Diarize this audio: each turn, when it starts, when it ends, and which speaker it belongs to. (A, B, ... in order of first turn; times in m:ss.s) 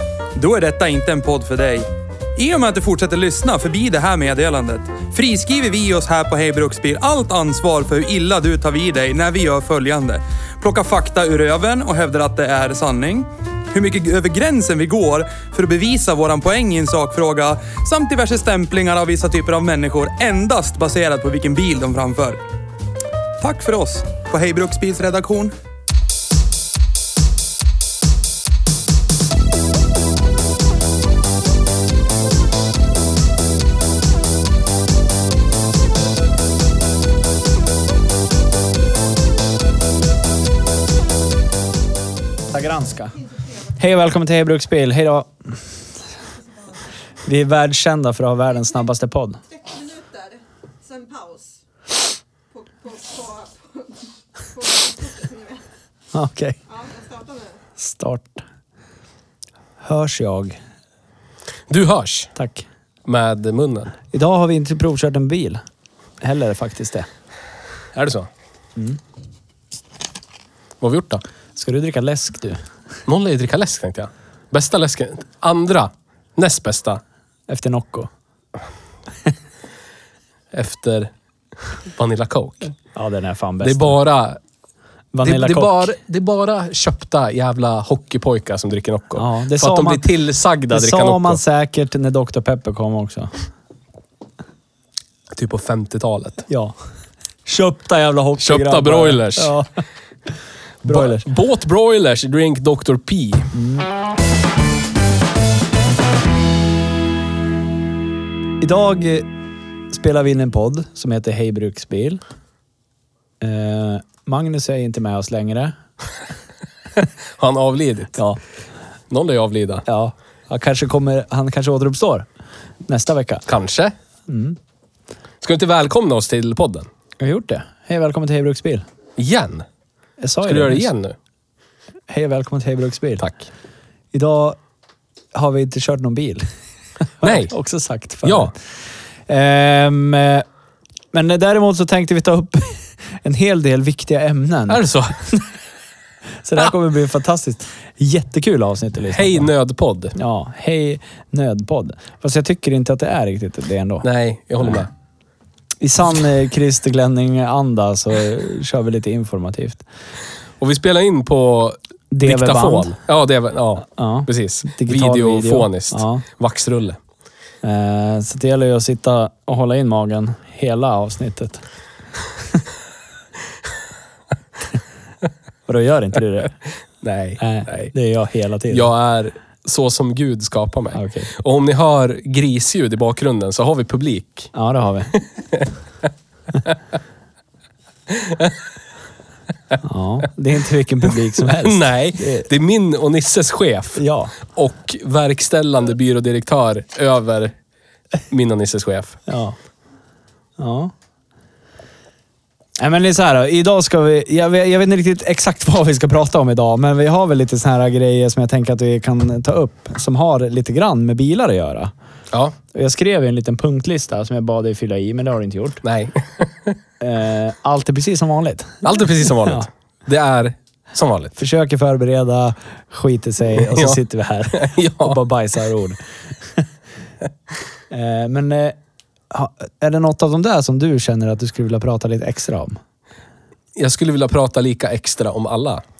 0:00.3-0:22.4 A
0:23.4-0:25.5 A
0:42.5-0:43.2 B
0:43.2-0:43.8 C
0:43.8-0:45.6 B
0:46.2-0:46.8 C
0:47.2-0:49.4 B
0:49.5-0:51.6 C
0:52.5-0:55.6 C
0:56.1-0:56.6 B
0:56.7-0:57.6 C
0:57.8-0:58.4 B
0:59.8-1:00.6 B
1:01.7-1:02.3 D
1:02.4-1:02.6 B
1:03.0-1:03.9 D
1:04.1-1:05.6 B
1:06.2-1:07.1 B
1:07.9-1:08.3 D
1:10.8-1:11.2 D
1:11.6-1:12.6 B
1:13.1-1:17.0 D
1:17.5-1:18.1 B
1:20.5-1:22.7 D
1:22.9-1:24.0 B
1:23.6-1:24.4 D
1:25.1-1:25.9 B
1:25.2-1:31.4 D
1:29.1-1:30.0 B
1:30.7-1:33.3 B
1:35.3-1:36.4 D
1:36.5-1:36.7 B
1:37.4-1:39.7 B
1:38.4-1:39.5 D
1:40.8-1:41.2 B
1:40.8-1:43.5 D
1:43.5-1:43.9 B
1:48.6-1:49.3 B
1:49.9-1:52.2 B
1:53.4-1:55.8 B
1:57.0-1:58.2 D
1:58.1-1:58.4 B
1:59.1-1:59.8 D
1:59.8-2:02.3 B
2:02.9-2:03.4 B
2:03.4-2:03.9 D
2:04.3-2:04.6 B
2:05.4-2:06.9 D
2:07.2-2:08.8 B
2:09.2-2:09.6 D
2:10.2-2:10.9 B
2:10.4-2:11.2 D
2:12.1-2:13.2 B
2:13.2-2:13.5 D
2:14.1-2:14.6 B
2:15.3-2:16.4 B
2:17.2-2:18.6 B
2:17.2-2:17.5 D
2:18.2-2:18.5 D
2:19.3-2:20.4 B
2:21.1-2:25.4 B
2:24.7-2:25.1 D
2:26.4-2:29.5 B
2:29.1-2:30.1 D
2:30.1-2:34.0 B
2:34.0-2:34.9 D
2:35.8-2:39.8 B
2:40.6-2:47.0 D
2:42.1-2:43.0 B
2:43.9-2:46.2 B
2:47.6-2:51.6 B
2:55.7-2:56.6 B
2:57.0-2:57.9 D
2:57.4-2:58.9 B
2:58.7-3:04.5 D
3:00.9-3:01.3 B
3:04.5-3:05.2 B
3:05.2-3:05.6 D
3:08.1-3:08.6 D
3:09.8-3:12.5 B
3:11.4-3:17.5 D
3:13.9-3:14.4 B
3:18.3-3:19.2 D
3:19.3-3:19.6 B
3:20.6-3:20.9 B
3:22.8-3:31.9 B
3:32.7-3:35.8 B
3:35.8-3:36.8 D
3:37.0-3:39.6 B
3:38.8-3:41.3 D
3:41.4-3:46.6 B
3:43.5-3:44.0 D
3:44.5-3:45.2 D
3:47.9-3:48.8 B
3:49.3-3:52.8 B
3:53.8-3:55.8 D